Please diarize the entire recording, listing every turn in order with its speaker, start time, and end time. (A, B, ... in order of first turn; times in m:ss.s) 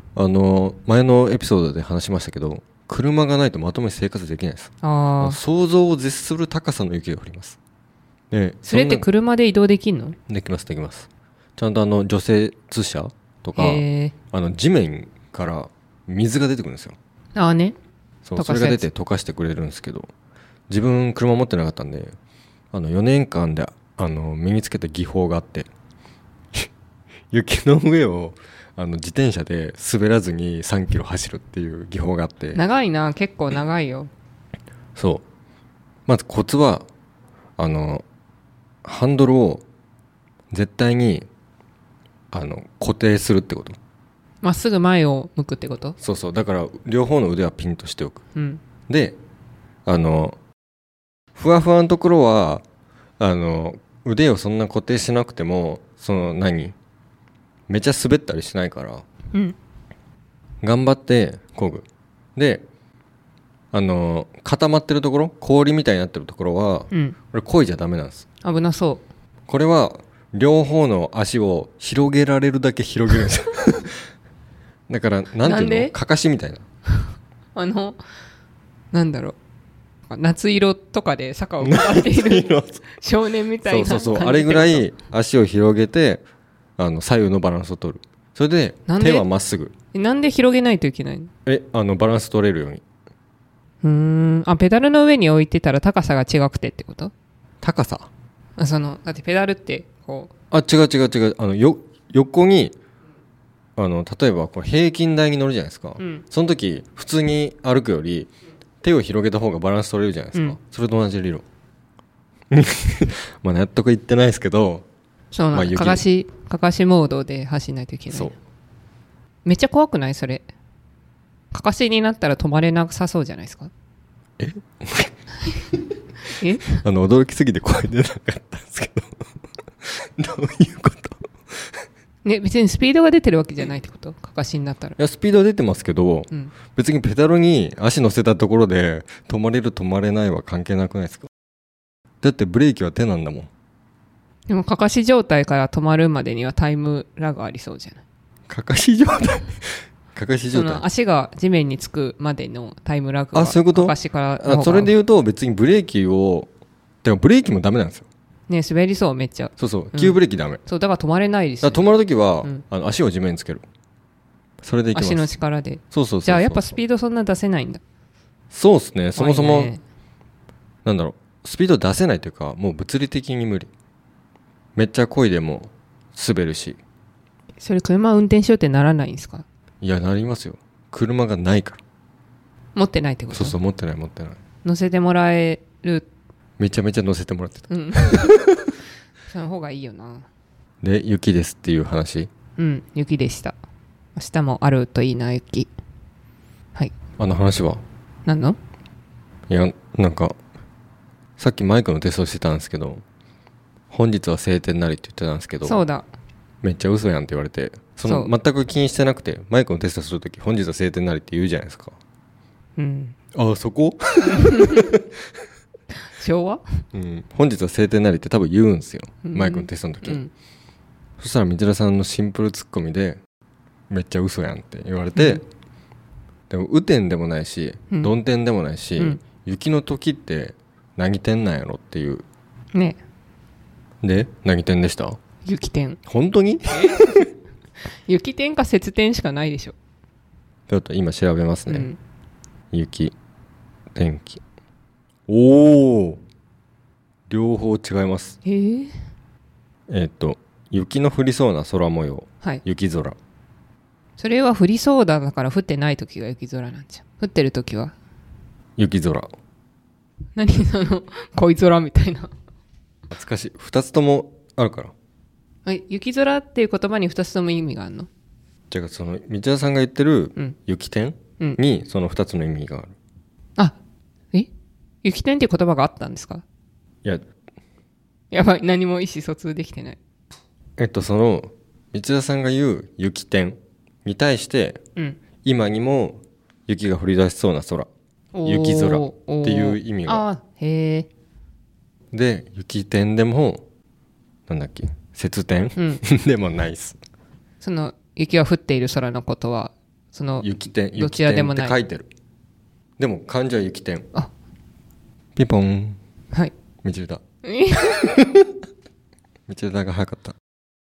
0:00.2-0:07.6 A
0:04.8-0:05.4 B
0:08.3-0:09.1 A
0:08.7-0:10.2 B
0:10.3-0:17.0 A
0:13.6-0:14.1 B
0:17.4-0:17.8 B
0:18.2-0:20.1 A
0:18.4-0:18.9 B
0:20.7-0:22.2 A
0:22.7-0:25.7 A
0:27.3-0:32.6 A
0:32.6-0:34.1 B
0:35.0-0:35.2 A
0:36.1-0:36.9 A
0:37.6-0:38.0 A
0:38.8-0:39.6 A
0:40.5-0:41.3 A
0:42.3-0:43.8 A
0:44.4-0:46.0 B
0:46.0-0:48.2 A
0:48.4-0:48.6 B
0:48.9-0:49.2 A
0:49.9-0:50.4 A
0:51.4-0:52.6 A
0:53.2-0:56.8 A
0:57.7-0:59.0 A
1:00.6-1:02.6 A
1:03.7-1:08.2 A
1:06.9-1:07.2 B
1:08.4-1:09.0 B
1:09.5-1:14.0 A
1:14.9-1:16.6 A
1:15.4-1:15.9 B
1:17.6-1:18.0 B
1:18.9-1:19.4 B
1:20.1-1:24.9 B
1:21.6-1:22.9 A
1:23.6-1:26.2 A
1:26.8-1:29.7 A
1:28.9-1:29.3 B
1:29.9-1:31.3 B
1:31.5-1:32.8 A
1:33.8-1:37.1 B
1:37.6-1:38.1 A
1:38.6-1:40.3 B
1:40.5-1:42.8 A
1:43.8-1:48.3 A
1:48.8-1:51.4 A
1:52.5-1:54.9 A
1:55.3-1:58.3 B
1:55.5-1:56.0 A
1:58.1-1:58.4 A
1:59.4-2:00.5 B
2:01.5-2:03.7 B
2:04.4-2:05.1 A
2:06.3-2:06.8 B
2:06.7-2:09.2 A
2:09.8-2:11.8 A
2:12.2-2:15.0 B
2:15.0-2:21.3 A
2:22.2-2:23.5 A
2:24.5-2:28.0 B
2:28.5-2:30.8 A
2:30.5-2:34.9 B
2:33.3-2:36.5 A
2:37.0-2:38.1 A
2:38.5-2:41.9 B
2:39.6-2:40.6 A
2:41.6-2:43.6 A
2:44.6-2:45.3 A
2:44.9-2:47.8 B
2:45.9-2:46.8 A
2:48.5-2:49.7 A
2:49.2-2:49.8 B
2:50.8-2:53.7 A
2:54.8-2:56.8 A
2:57.6-2:59.4 B
2:59.8-3:01.8 A
3:02.8-3:03.6 B
3:03.3-3:04.4 A
3:04.6-3:06.1 B
3:06.6-3:08.7 A
3:07.7-3:08.4 B
3:09.3-3:10.3 B
3:10.8-3:12.3 A
3:12.6-3:13.6 B
3:14.2-3:15.7 B
3:17.2-3:17.8 A
3:18.3-3:18.6 B
3:19.5-3:20.4 A
3:21.4-3:23.0 A
3:23.9-3:25.8 A
3:25.6-3:26.1 B
3:26.6-3:32.0 A
3:28.1-3:28.3 B
3:32.8-3:33.2 B
3:33.3-3:35.1 A
3:34.3-3:34.9 B
3:36.1-3:36.6 B
3:36.9-3:40.2 A
3:39.2-3:40.3 B
3:41.2-3:43.2 A
3:43.9-3:45.4 A
3:45.2-3:45.4 B
3:46.5-3:52.2 A
3:54.0-3:55.2 A
3:55.4-3:56.0 B
3:56.1-3:57.3 A
3:56.8-3:57.1 B
3:58.1-3:59.8 B
4:00.7-4:01.9 A
4:01.7-4:02.0 B
4:02.7-4:03.1 A
4:03.9-4:04.4 A
4:05.3-4:06.2 A
4:07.3-4:08.4 A
4:08.4-4:08.9 B
4:09.9-4:13.2 A
4:14.2-4:17.9 B
4:18.8-4:19.3 A
4:20.4-4:22.3 B
4:23.1-4:24.9 A
4:25.7-4:28.1 B
4:28.7-4:32.9 A
4:35.0-4:36.4 B
4:38.3-4:40.0 B
4:40.8-4:44.8 A
4:45.4-4:47.9 A
4:48.4-4:51.1 B
4:48.4-4:50.3 A
4:52.1-4:53.6 A
4:54.5-4:57.0 A
4:55.8-4:56.0 B
4:57.6-5:01.8 B
5:00.4-5:02.1 A
5:03.0-5:04.1 A
5:05.4-5:06.0 A
5:06.8-5:07.2 A
5:07.4-5:08.2 B
5:08.0-5:08.5 A
5:09.5-5:10.4 A